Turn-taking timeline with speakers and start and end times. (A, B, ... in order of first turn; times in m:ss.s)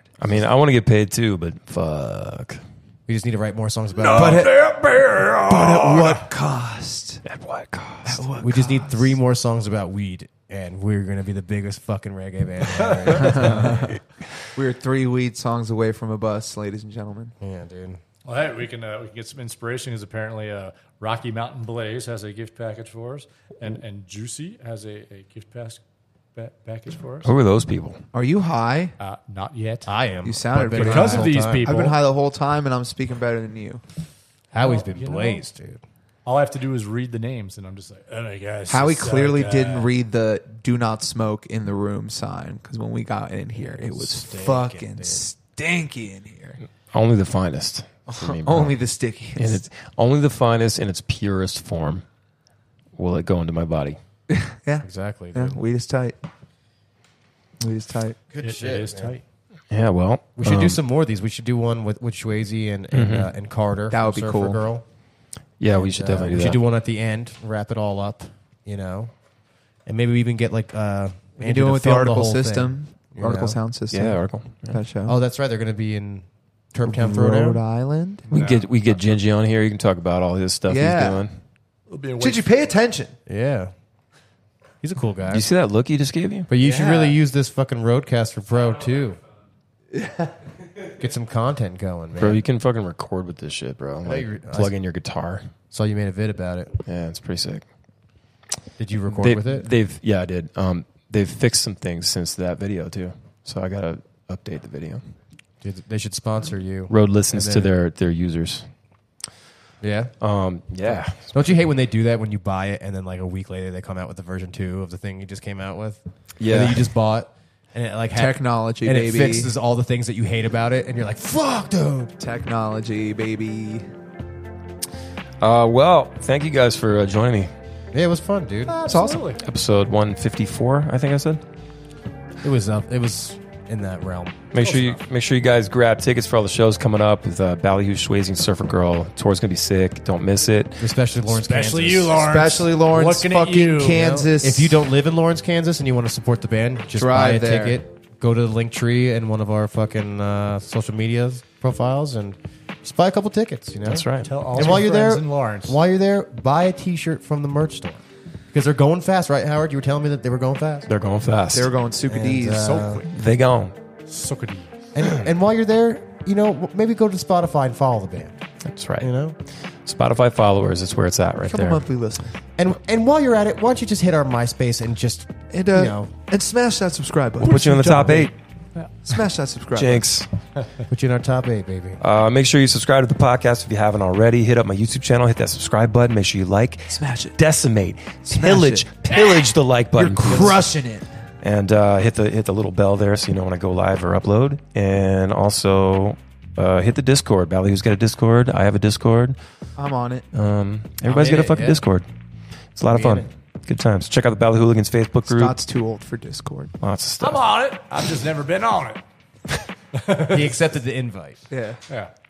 0:00.2-0:02.6 A
0:03.1-0:04.5 B
0:04.0-0:06.2 C
0:04.1-0:04.6 D
0:05.4-0:07.2 D
0:07.2-0:08.2 A
0:08.0-0:09.1 D
0:08.4-0:14.0 B
0:13.1-0:14.0 D
0:13.2-0:13.5 C
0:14.5-0:17.3 D
0:17.4-0:18.0 B
0:18.2-0:25.8 C
0:26.3-0:27.3 C
0:27.2-0:28.0 A
0:28.1-0:28.9 D
0:29.0-0:29.9 C
0:29.8-0:31.6 B
0:30.2-0:33.8 D
0:30.7-0:32.0 C
0:34.5-0:35.8 B
0:34.6-0:35.4 C
0:36.2-0:39.9 C
0:38.7-0:46.6 D
0:43.5-0:45.2 B
0:46.9-0:48.8 A
0:48.1-0:49.6 D
0:49.4-0:52.0 A
0:52.9-0:54.0 A
0:54.3-0:56.2 D
0:54.8-0:55.6 B
0:57.6-0:58.2 D
0:58.3-0:59.2 B
0:58.4-0:59.2 C
0:59.7-1:00.8 A
1:00.3-1:04.8 B
1:02.9-1:03.3 A
1:03.9-1:04.6 D
1:05.6-1:06.6 A
1:05.7-1:09.1 B
1:09.8-1:13.6 B
1:11.4-1:15.2 D
1:13.9-1:14.8 A
1:15.1-1:17.6 B
1:16.8-1:18.3 D
1:18.3-1:21.4 A
1:18.3-1:18.7 C
1:20.7-1:21.2 D
1:21.9-1:22.6 C
1:22.2-1:23.2 D
1:23.2-1:23.7 B
1:24.8-1:25.4 B
1:25.3-1:26.5 A
1:26.5-1:29.2 B
1:26.6-1:27.2 D
1:29.9-1:30.3 D
1:30.9-1:32.4 B
1:32.2-1:35.5 A
1:34.0-1:34.7 B
1:35.7-1:36.7 B
1:36.8-1:37.7 A
1:38.8-1:39.7 B
1:39.2-1:45.0 A
1:45.6-1:47.7 B
1:46.9-1:48.7 A
1:49.8-1:50.1 B
1:50.2-1:51.5 A
1:51.3-2:02.1 B
1:56.4-1:56.9 A
1:58.1-1:59.5 D
2:02.2-2:03.9 D
2:05.4-2:07.5 A
2:07.9-2:08.8 B
2:08.7-2:09.4 C
2:08.8-2:09.3 D
2:09.4-2:11.4 A
2:12.4-2:14.4 B
2:14.5-2:20.9 A
2:14.6-2:15.0 C
2:20.8-2:22.3 B
2:21.3-2:24.1 C
2:22.2-2:24.9 D
2:23.9-2:40.9 B
2:26.9-2:27.8 D
2:33.8-2:34.3 A
2:34.2-2:35.8 C
2:40.8-2:41.7 A
2:41.5-2:42.9 D
2:42.0-2:43.0 B
2:42.6-2:43.1 C
2:43.0-2:43.8 A
2:44.0-2:44.7 C
2:44.9-2:48.4 B
2:48.6-2:49.1 A
2:49.0-2:49.4 B
2:49.8-2:51.8 A
2:51.4-2:52.3 D
2:52.6-2:56.1 B
2:55.5-2:57.6 D
2:57.4-2:58.9 C
2:57.4-2:58.3 A
2:59.0-3:00.1 D
2:59.7-3:00.3 A
3:00.9-3:02.0 B
3:02.0-3:10.7 A
3:06.9-3:07.4 D
3:08.2-3:09.4 D
3:10.0-3:11.1 D
3:11.4-3:19.4 A
3:19.8-3:20.3 D
3:20.3-3:22.1 A
3:21.0-3:21.8 B
3:22.8-3:25.6 A
3:22.9-3:23.2 B
3:25.2-3:26.7 D
3:26.8-3:27.4 A
3:27.2-3:29.0 C
3:30.0-3:30.4 C
3:30.1-3:31.4 B
3:31.5-3:31.8 D